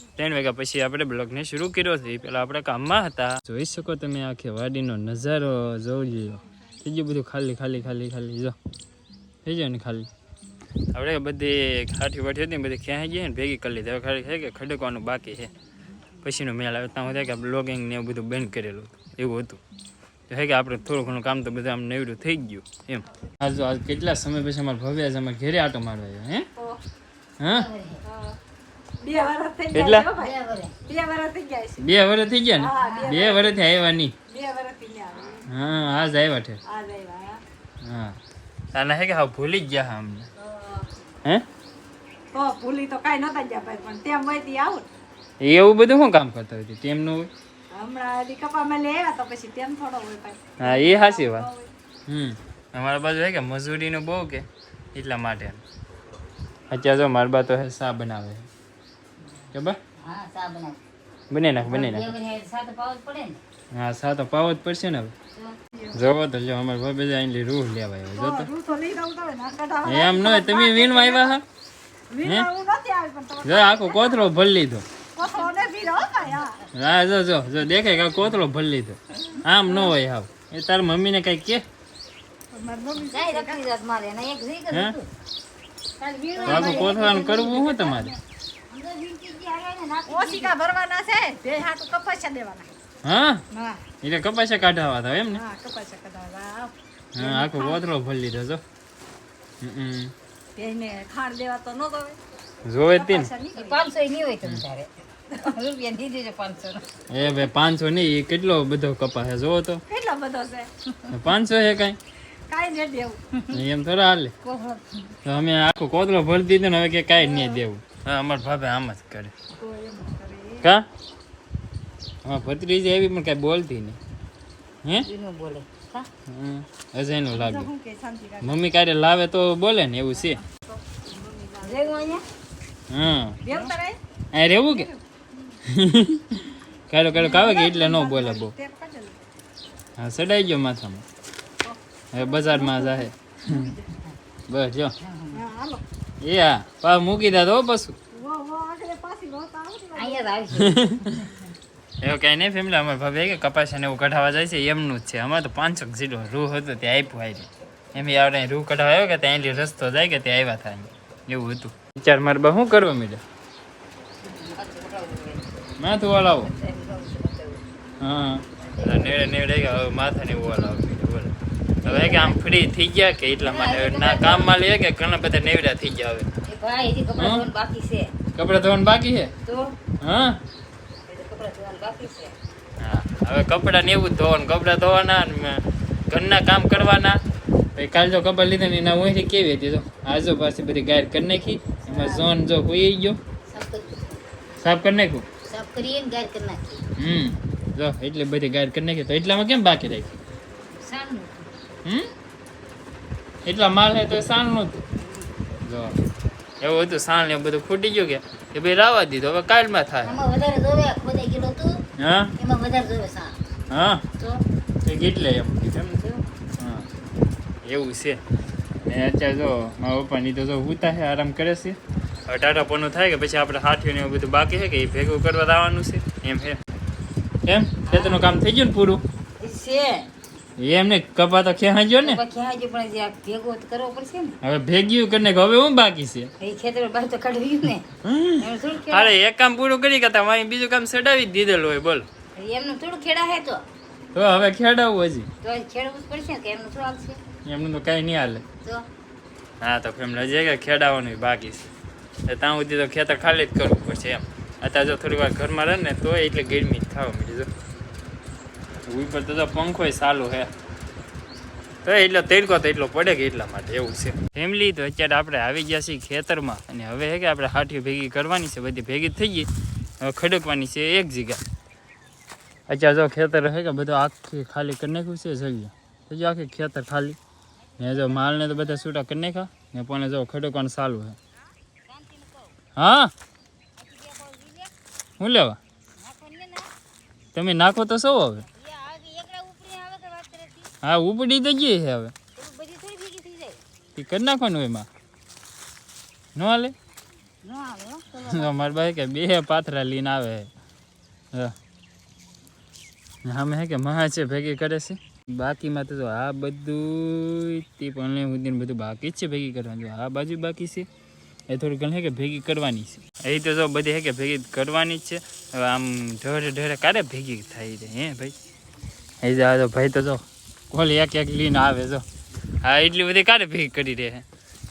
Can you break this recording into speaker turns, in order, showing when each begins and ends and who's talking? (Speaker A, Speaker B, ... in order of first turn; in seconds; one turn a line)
Speaker A: 0.2-8.6
Speaker A: 9.4-10.1
Speaker A: 10.9-15.5
Speaker A: 16.2-19.6
Speaker A: 20.3-26.5
Speaker A: 27.4-27.7
Speaker B: 27.4-28.0
Speaker C: 28.0-28.4
Speaker C: 29.0-30.3
Speaker A: 29.7-30.1
Speaker B: 30.0-30.7
Speaker C: 30.8-31.9
Speaker A: 31.8-34.1
Speaker C: 32.6-33.5
Speaker B: 32.8-33.2
Speaker C: 34.3-35.5
Speaker A: 35.5-36.6
Speaker C: 36.6-37.4
Speaker A: 37.8-38.2
Speaker A: 38.7-40.3
Speaker C: 40.5-40.9
Speaker C: 42.3-44.9
Speaker A: 45.4-47.3
Speaker C: 47.7-51.7
Speaker A: 50.6-51.5
Speaker A: 52.1-55.6
Speaker A: 56.7-58.5
Speaker A: 59.5-59.8
Speaker B: 60.0-60.8
Speaker A: 61.3-62.1
Speaker B: 61.6-63.4
Speaker A: 63.7-65.1
Speaker A: 65.9-68.5
Speaker C: 68.2-71.3
Speaker A: 69.8-71.4
Speaker C: 72.1-74.3
Speaker A: 72.2-72.5
Speaker A: 73.4-74.8
Speaker C: 75.2-76.6
Speaker A: 76.7-81.6
Speaker C: 82.5-83.6
Speaker B: 83.0-85.1
Speaker A: 84.7-85.0
Speaker B: 86.0-90.5
Speaker C: 86.3-87.2
Speaker A: 86.5-88.1
Speaker C: 90.1-92.7
Speaker A: 93.0-93.4
Speaker C: 93.5-93.8
Speaker A: 94.0-95.4
Speaker C: 95.3-97.8
Speaker A: 97.1-98.6
Speaker A: 99.6-100.1
Speaker C: 100.5-102.2
Speaker A: 102.6-103.3
Speaker C: 102.9-103.9
Speaker B: 103.5-106.8
Speaker A: 107.1-109.8
Speaker C: 109.9-110.7
Speaker A: 111.1-112.0
Speaker C: 112.5-113.2
Speaker A: 113.5-114.3
Speaker B: 114.4-115.1
Speaker A: 115.2-119.3
Speaker C: 117.2-117.6
Speaker C: 119.6-120.7
Speaker A: 120.6-120.9
Speaker A: 122.2-124.0
Speaker B: 124.9-126.1
Speaker A: 126.3-127.7
Speaker C: 127.3-128.6
Speaker A: 128.4-130.4
Speaker C: 130.6-132.2
Speaker B: 131.6-132.2
Speaker A: 132.9-133.4
Speaker C: 133.4-134.0
Speaker A: 134.3-134.9
Speaker C: 134.7-135.0
Speaker A: 135.6-138.5
Speaker C: 137.1-139.2
Speaker A: 139.9-141.1
Speaker C: 141.6-144.0
Speaker A: 142.1-143.8
Speaker A: 144.5-144.9
Speaker B: 145.0-145.4
Speaker C: 145.3-145.8
Speaker A: 146.2-148.0
Speaker C: 148.1-150.2
Speaker B: 149.9-151.2
Speaker A: 150.6-151.3
Speaker A: 152.0-163.2
Speaker B: 164.2-165.4
Speaker A: 165.8-166.5
Speaker B: 166.4-167.6
Speaker A: 168.0-176.3
Speaker B: 168.6-169.1
Speaker B: 171.8-172.4
Speaker B: 173.4-174.6
Speaker B: 176.4-178.1
Speaker A: 177.2-177.5
Speaker A: 178.3-179.3
Speaker B: 179.4-179.8
Speaker A: 180.0-180.4
Speaker B: 181.1-182.3
Speaker A: 182.8-187.2
Speaker A: 187.8-193.2
Speaker B: 191.8-192.3
Speaker B: 193.5-194.2
Speaker A: 194.6-195.2
Speaker B: 195.4-196.8
Speaker A: 197.0-200.2
Speaker B: 200.8-201.5
Speaker A: 201.8-202.1
Speaker A: 203.4-204.9
Speaker A: 205.6-206.0
Speaker A: 206.6-210.2
Speaker B: 210.0-211.8
Speaker A: 212.0-212.3
Speaker B: 212.4-213.4
Speaker A: 213.7-214.1
Speaker A: 214.8-216.0
Speaker B: 216.0-216.2
Speaker A: 216.6-216.9
Speaker A: 217.6-218.2
Speaker A: 218.8-226.6
Speaker A: 227.4-229.0
Speaker B: 227.9-228.3
Speaker B: 229.4-230.1
Speaker A: 230.6-232.2
Speaker B: 232.0-234.3
Speaker A: 234.4-236.3
Speaker B: 236.4-239.1
Speaker A: 238.0-242.1
Speaker B: 242.3-243.6
Speaker A: 244.1-245.3
Speaker B: 245.4-247.2
Speaker A: 247.4-248.4
Speaker A: 249.6-251.7
Speaker A: 252.2-257.5
Speaker A: 258.9-260.5
Speaker A: 261.8-271.4
Speaker A: 272.7-277.2
Speaker A: 277.8-281.2
Speaker B: 281.9-282.6
Speaker A: 282.8-283.1
Speaker B: 283.8-284.7
Speaker A: 285.2-285.6
Speaker B: 286.0-286.7
Speaker A: 287.3-288.5
Speaker B: 288.5-290.7
Speaker A: 290.8-292.1
Speaker B: 292.3-293.6
Speaker A: 293.9-294.9
Speaker A: 296.3-296.7
Speaker B: 297.4-298.5
Speaker A: 298.2-300.5
Speaker A: 303.2-310.9
Speaker A: 311.5-318.3
Speaker A: 319.2-322.0
Speaker A: 322.6-324.2